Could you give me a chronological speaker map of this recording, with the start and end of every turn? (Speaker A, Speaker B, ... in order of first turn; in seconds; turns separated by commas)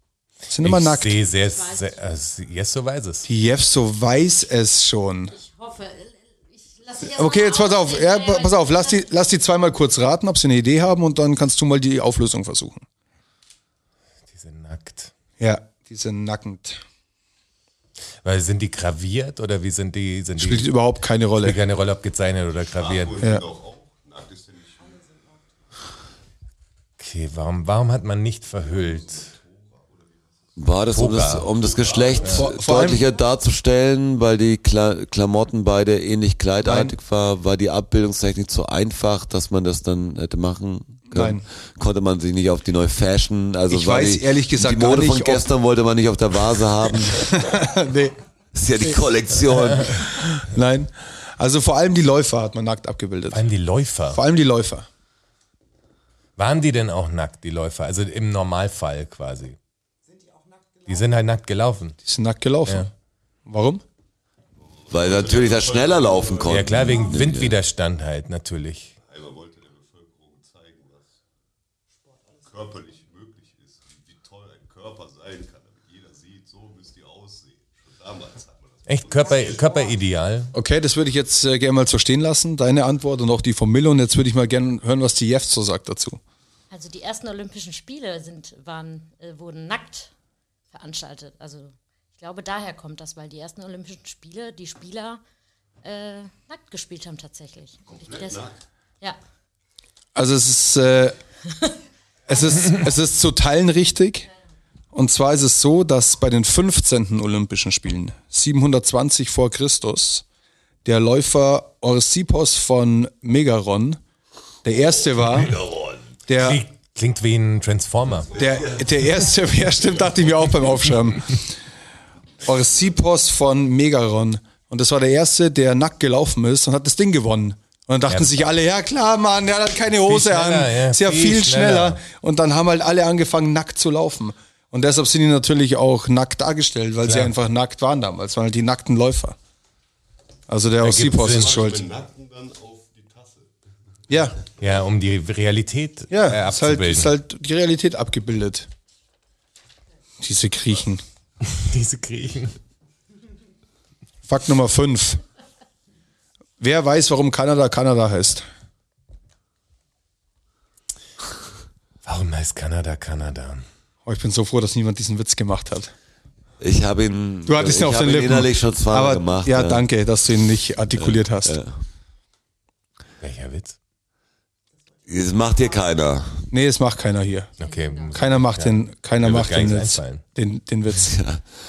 Speaker A: 0.5-1.2, Speaker B: 0.6-3.3, Speaker C: 1.4-1.9, Speaker A: 3.2-5.3, Speaker C: 5.3-9.1, Speaker A: 7.1-12.8, Speaker B: 14.3-15.1, Speaker A: 15.4-16.8, Speaker B: 18.2-20.7, Speaker A: 20.4-21.6, Speaker B: 21.4-23.2, Speaker D: 22.7-25.0, Speaker B: 27.0-29.3, Speaker D: 28.7-30.7, Speaker E: 30.6-47.5, Speaker B: 30.9-31.5, Speaker D: 31.5-32.5, Speaker A: 32.3-33.0, Speaker A: 36.6-36.9, Speaker A: 41.1-41.4, Speaker A: 43.7-45.5, Speaker A: 47.0-48.1, Speaker E: 48.5-50.3, Speaker A: 49.5-53.5, Speaker B: 53.3-54.2, Speaker A: 54.1-54.9, Speaker B: 56.4-59.6, Speaker B: 60.8-62.0, Speaker A: 62.0-62.9, Speaker A: 63.5-63.8, Speaker D: 64.6-66.8, Speaker E: 64.9-67.5, Speaker B: 66.5-68.9, Speaker D: 69.1-71.1, Speaker D: 72.4-79.7, Speaker B: 78.9-80.5, Speaker A: 80.5-86.2, Speaker C: 86.7-90.1, Speaker C: 90.7-95.2, Speaker C: 95.8-98.4, Speaker D: 97.9-98.5, Speaker A: 100.1-101.2, Speaker A: 102.3-104.3, Speaker A: 104.9-110.2, Speaker A: 110.8-114.0, Speaker A: 114.6-115.6, Speaker E: 115.4-116.0, Speaker A: 116.3-116.6, Speaker B: 116.3-118.4, Speaker A: 118.3-121.5, Speaker A: 122.4-139.3, Speaker B: 128.1-128.4, Speaker B: 130.1-132.0, Speaker B: 137.0-137.3, Speaker A: 140.5-141.8, Speaker B: 140.8-141.5, Speaker D: 141.2-143.5, Speaker A: 144.1-144.4, Speaker B: 144.6-147.1, Speaker A: 146.1-148.7, Speaker A: 150.2-151.0, Speaker B: 151.4-152.5, Speaker A: 154.3-155.2, Speaker A: 156.6-158.4, Speaker B: 162.0-163.7, Speaker A: 164.1-165.9, Speaker E: 166.6-169.8, Speaker A: 167.5-171.6, Speaker E: 170.9-171.8, Speaker B: 173.2-173.8, Speaker E: 175.1-176.5, Speaker A: 176.5-177.5, Speaker B: 177.6-180.2, Speaker C: 177.6-178.1, Speaker A: 178.1-181.2, Speaker E: 180.9-181.4